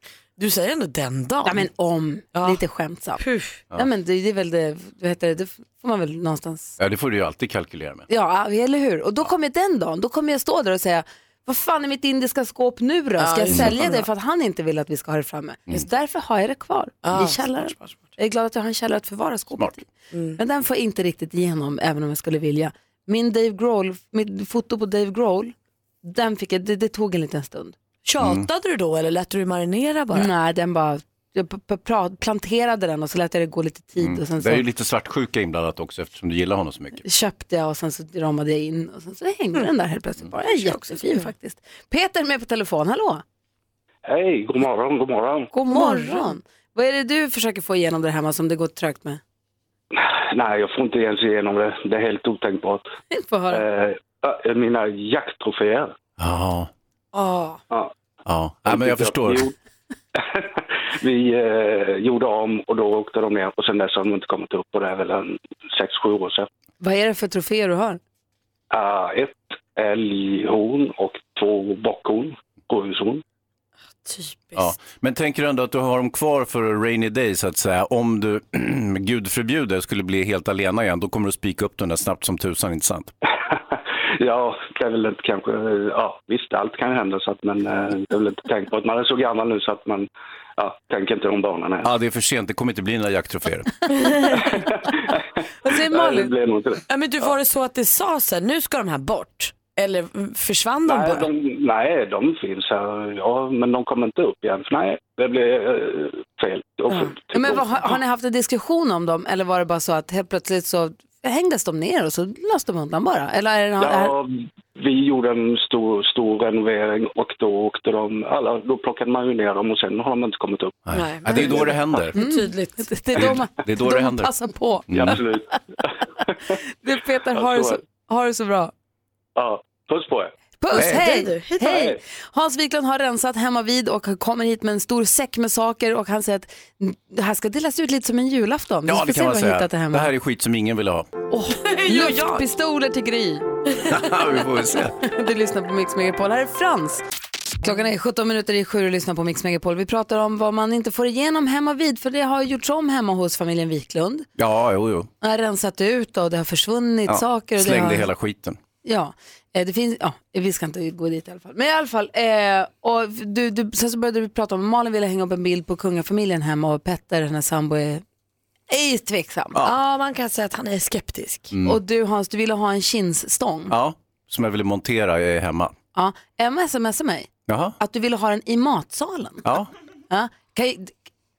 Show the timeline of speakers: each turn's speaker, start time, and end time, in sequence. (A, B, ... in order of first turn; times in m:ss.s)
0:00.4-0:01.7 A
0:01.4-0:03.2 B
0:02.4-0:02.6 A
0:03.2-0:03.6 A
0:03.7-0:06.8 B
0:06.8-0:08.1 C
0:08.1-0:27.8 B
0:13.2-0:14.1 A
0:13.5-0:13.8 C
0:17.0-0:18.0 A
0:20.1-0:20.4 A
0:28.0-0:30.3 A
0:28.2-0:28.5 C
0:30.1-0:34.6 B
0:34.0-0:37.0 C
0:37.0-0:43.2 B
0:40.4-0:41.3 A
0:44.1-0:45.5 D
0:45.5-0:49.2 B
0:45.7-0:46.4 A
0:49.9-0:52.9 D
0:53.1-0:53.6 B
0:53.5-0:55.9 D
0:56.2-0:56.7 C
0:57.1-0:57.6 B
0:58.3-0:59.5 C
0:58.7-0:59.5 D
1:00.2-1:06.5 D
1:06.8-1:08.0 B
1:08.7-1:13.2 D
1:14.0-1:14.7 A
1:14.6-1:23.1 C
1:23.4-1:31.9 D
1:31.8-1:33.7 C
1:34.0-1:34.2 A
1:34.3-1:36.8 D
1:35.6-1:36.3 B
1:36.9-1:41.3 A
1:40.9-1:48.0 D
1:46.9-1:54.1 B
1:53.8-2:01.8 D
2:00.9-2:02.2 C
2:00.9-2:03.3 A
2:02.1-2:05.6 B
2:03.2-2:04.3 C
2:04.9-2:05.2 C
2:04.9-2:06.5 D
2:06.8-2:08.7 B
2:07.3-2:07.8 D
2:09.4-2:10.3 D
2:10.6-2:20.1 B
2:10.7-2:11.9 A
2:10.8-2:11.0 C
2:11.6-2:12.0 D
2:18.9-2:21.1 C
2:21.3-2:23.4 B
2:21.6-2:22.4 A
2:23.9-2:25.0 C
2:25.0-2:27.0 B
2:27.6-2:34.3 B
2:34.4-2:35.1 C
2:35.2-2:38.1 B
2:37.1-2:38.6 C
2:38.8-2:48.0 B
2:48.7-2:49.6 B
2:49.6-2:51.5 A
2:51.5-2:51.8 C
2:51.6-2:53.7 B
2:53.7-2:55.7 C
2:56.0-2:59.4 B
2:57.5-2:57.8 C
2:59.4-2:59.7 C
3:00.1-3:01.0 B